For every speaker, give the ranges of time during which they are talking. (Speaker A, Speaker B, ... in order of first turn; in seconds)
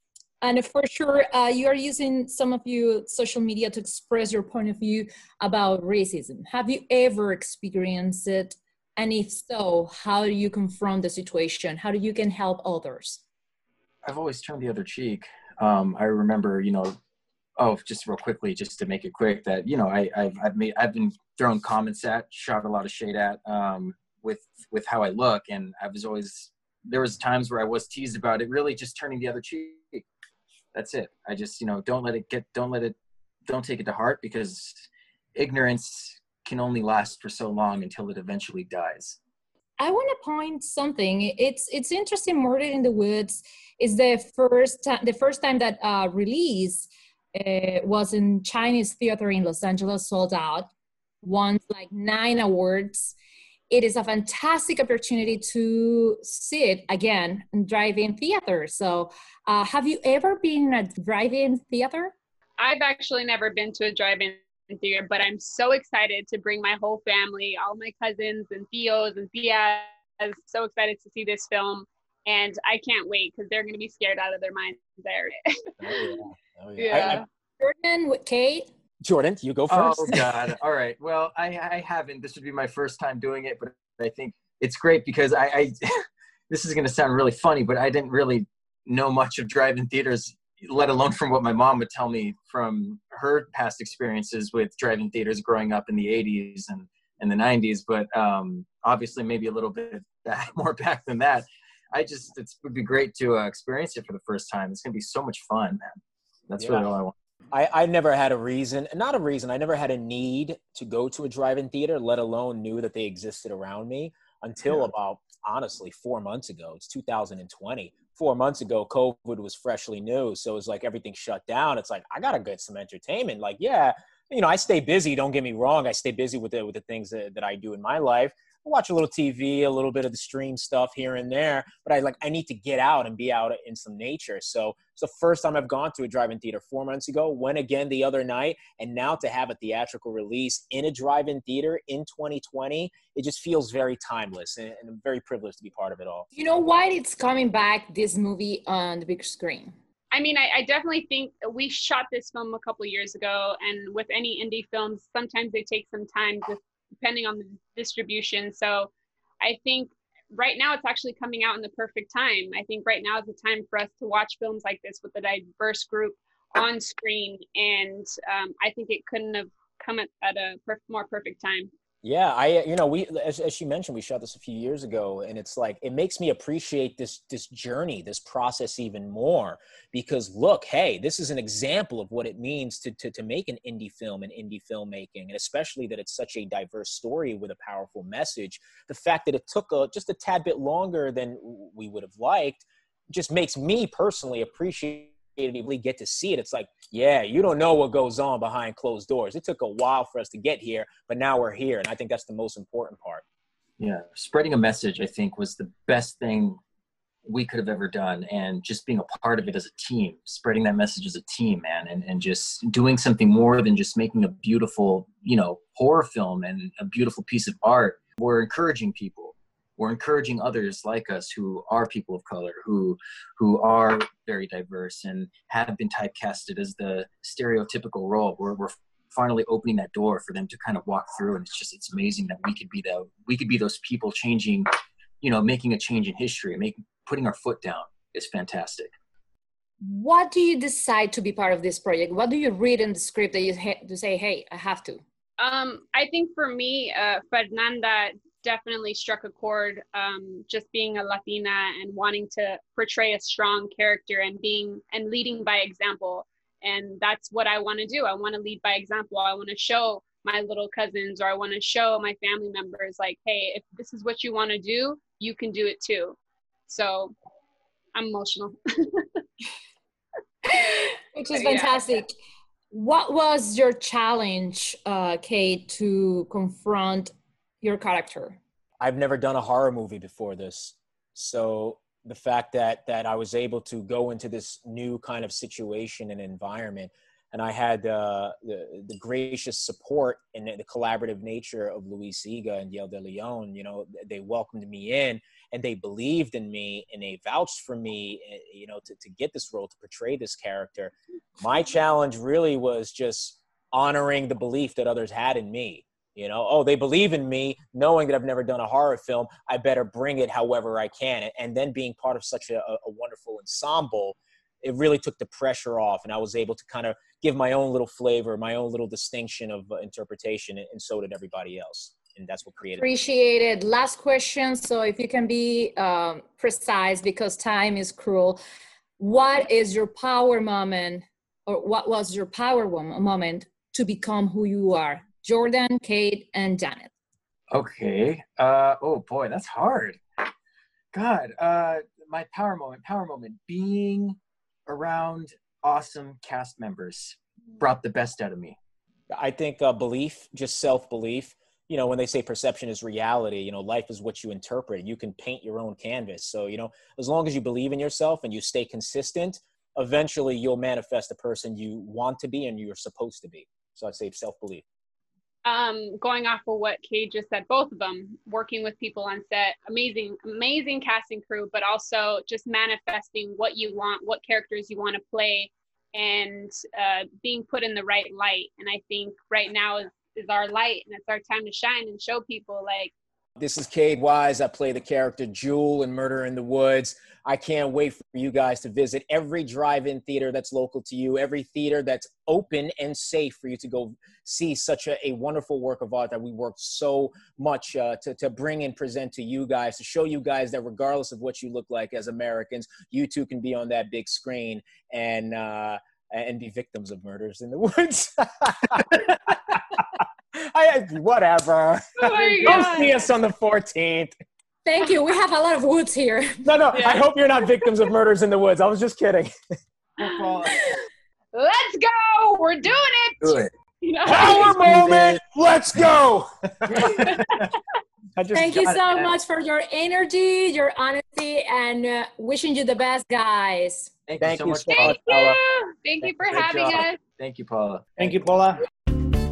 Speaker A: 0.4-13.2, 39.8-50.7, 51.2-53.1, 53.7-62.1, 76.9-78.7, 146.3-149.7, 239.8-245.0, 270.5-272.1, 272.7-278.4, 322.8-328.4, 329.0-336.9, 414.6-416.4, 428.3-433.9
Speaker B: 14.0-16.9, 17.6-30.0, 30.7-33.0, 33.5-39.2, 79.7-105.8, 106.5-107.1, 203.8-206.6, 207.2-234.7, 235.2-238.9, 337.5-340.0, 340.9-348.6, 420.0-420.6, 423.2-423.5, 424.7-425.1, 426.7-427.5, 428.7-429.1, 434.1-435.0, 436.2-438.2
Speaker C: 62.6-75.3, 76.8-77.2, 150.1-171.7, 245.4-267.1, 267.9-269.2, 271.3-271.9, 365.4-382.9, 412.0-413.1, 416.7-417.0, 421.3-424.6, 434.7-437.0
Speaker D: 75.8-77.2, 79.0-80.5, 106.6-106.9, 107.5-146.3, 172.0-203.2, 278.8-322.9, 349.1-364.6, 383.4-414.1, 416.4-419.3, 424.1-427.1, 428.2-428.7, 434.2-435.4, 438.0-438.6